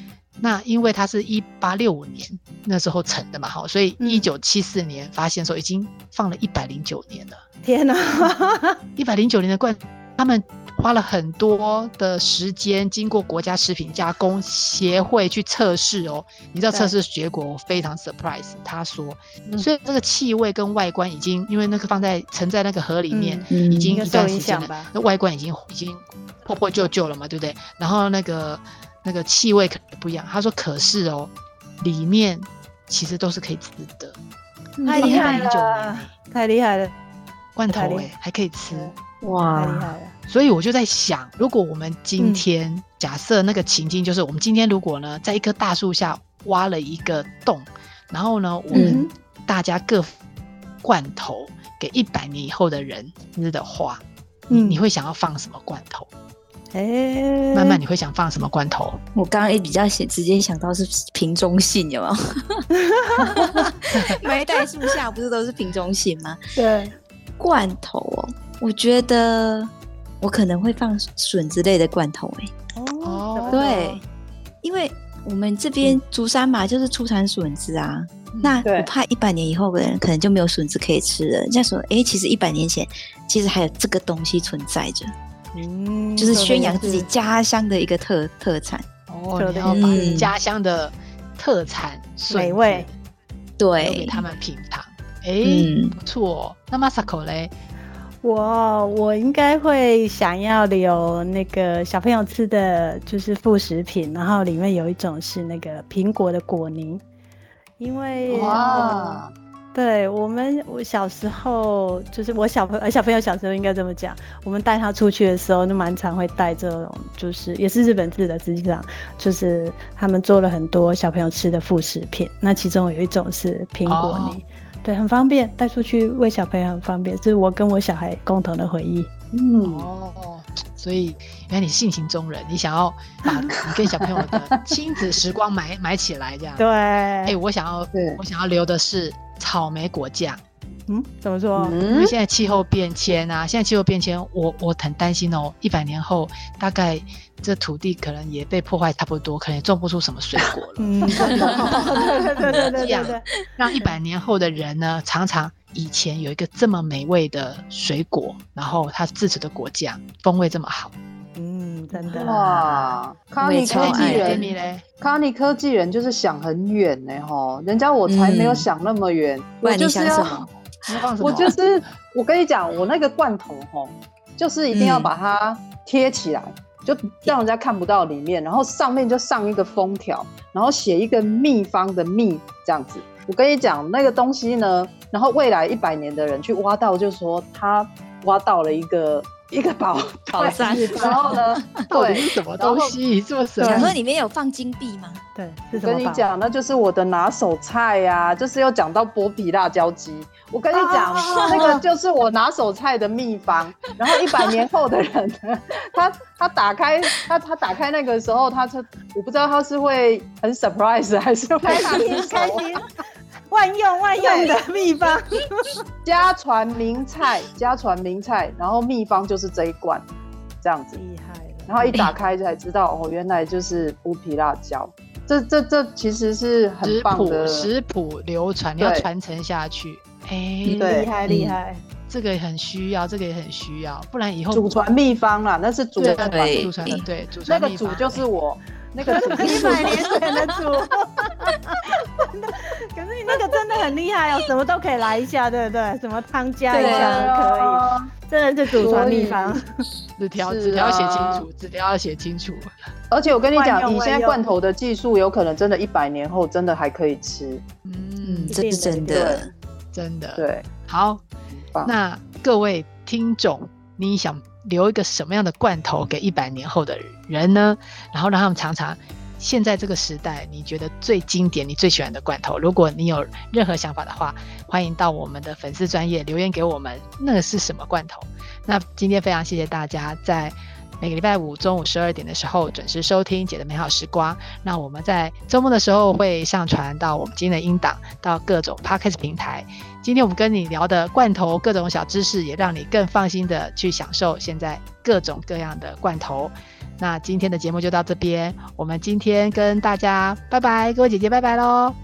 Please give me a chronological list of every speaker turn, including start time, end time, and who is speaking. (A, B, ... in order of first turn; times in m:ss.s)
0:00.4-0:07.4 A
0:04.0-0:04.3 B
0:07.6-0:08.8 B
0:09.0-0:34.2 A
0:23.1-0:24.9 B
0:23.5-0:24.0 C
0:34.8-0:35.5 C
0:34.8-0:36.9 B
0:34.9-0:36.1 A
0:37.6-0:38.9 A
0:37.7-0:38.1 B
0:39.2-0:40.0 C
0:39.5-0:40.1 B
0:40.3-0:50.1 A
0:42.2-0:42.4 B
0:48.7-0:49.0 C
0:48.7-0:49.1 B
0:50.8-0:56.1 A
0:54.5-0:54.8 B
0:56.7-0:57.8 B
0:57.5-0:59.0 A
0:59.1-1:02.6 C
1:02.8-1:03.7 B
1:03.2-1:06.4 C
1:06.6-1:07.0 B
1:07.4-1:12.5 C
1:12.8-1:14.0 B
1:13.0-1:13.6 A
1:13.5-1:14.0 C
1:14.6-1:25.1 C
1:18.3-1:18.6 A
1:18.6-1:18.9 D
1:25.5-1:27.1 B
1:26.2-1:28.9 C
1:29.1-1:32.9 A
1:29.3-1:30.2 B
1:29.6-1:30.3 C
1:32.2-1:32.9 B
1:33.6-1:34.2 C
1:33.8-1:37.5 A
1:35.4-1:36.0 C
1:38.2-1:47.0 B
1:47.8-1:49.2 B
1:48.3-1:49.3 D
1:49.7-2:09.1 B
2:03.8-2:04.4 A
2:09.3-2:09.9 D
2:09.6-2:16.6 A
2:13.3-2:14.8 D
2:16.6-2:17.4 B
2:17.2-2:20.4 A
2:17.9-2:18.2 D
2:20.9-2:21.8 B
2:21.6-2:22.1 D
2:21.9-2:40.9 A
2:30.8-2:33.2 B
2:31.2-2:31.9 C
2:31.4-2:31.9 D
2:41.4-2:42.4 B
2:42.0-2:50.5 D
2:42.3-2:42.8 A
2:43.4-2:44.4 C
2:43.7-2:44.8 A
2:48.0-2:48.7 C
2:49.6-2:50.5 C
2:50.8-2:51.6 A
2:51.2-3:12.9 D
2:54.7-2:55.1 C
3:10.3-3:11.7 C
3:11.0-3:13.9 A
3:13.6-3:13.9 D
3:13.6-3:15.2 C
3:15.3-3:16.2 B
3:15.7-3:32.6 D
3:20.7-3:21.8 B
3:21.3-3:21.8 C
3:31.6-3:32.9 B
3:33.5-3:35.8 B
3:34.2-3:34.5 D
3:36.0-3:40.1 D
3:40.6-3:41.0 D
3:40.9-3:42.0 B
3:41.7-3:47.7 D
3:46.8-3:50.9 A
3:48.8-3:49.1 D
3:50.7-3:51.8 B
3:50.8-3:51.1 D
3:51.3-3:51.6 C
3:52.1-3:54.7 A
3:54.5-3:56.6 D
3:56.0-3:58.2 A
3:56.2-3:57.0 C
3:57.5-4:00.2 D
3:59.0-4:09.7 B
3:59.4-4:00.3 C
4:06.7-4:08.1 D
4:06.7-4:07.3 C
4:08.8-4:09.6 D
4:10.2-4:12.7 A
4:10.4-4:11.4 D
4:13.1-4:17.6 D
4:13.5-4:14.4 B
4:17.8-4:18.6 A
4:18.2-4:19.5 C
4:18.5-4:19.5 B
4:19.1-4:19.4 D
4:19.9-4:21.2 A
4:20.4-4:20.6 D
4:21.8-5:02.0 A